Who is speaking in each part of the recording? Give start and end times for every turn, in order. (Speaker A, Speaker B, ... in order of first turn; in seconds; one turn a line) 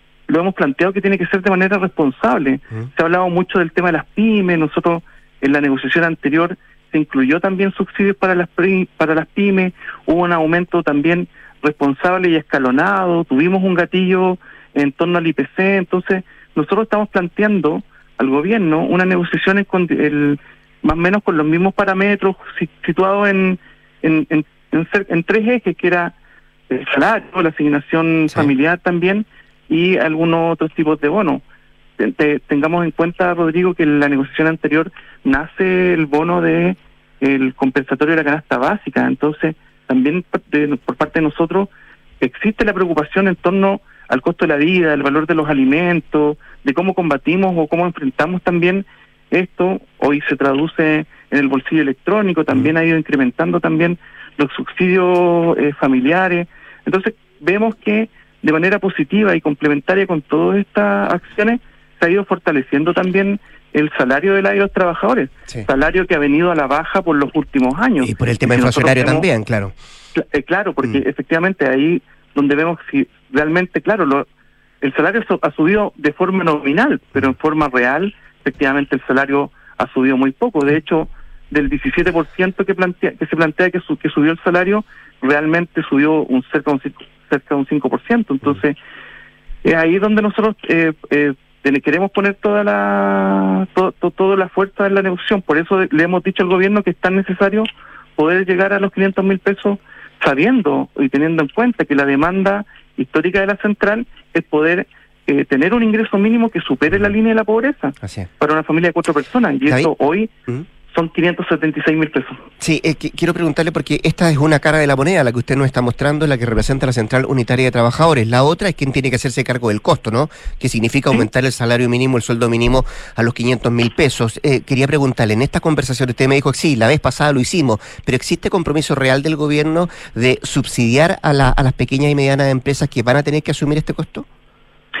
Speaker A: 0.3-26.1
Speaker A: 26.7-31.4
Speaker A: 32.0-69.3
Speaker B: 68.0-69.7
Speaker A: 70.2-74.3
Speaker A: 74.8-88.8
Speaker A: 89.6-110.3
Speaker B: 108.0-108.3
Speaker B: 109.7-109.9
Speaker A: 110.9-112.4
Speaker B: 112.6-134.3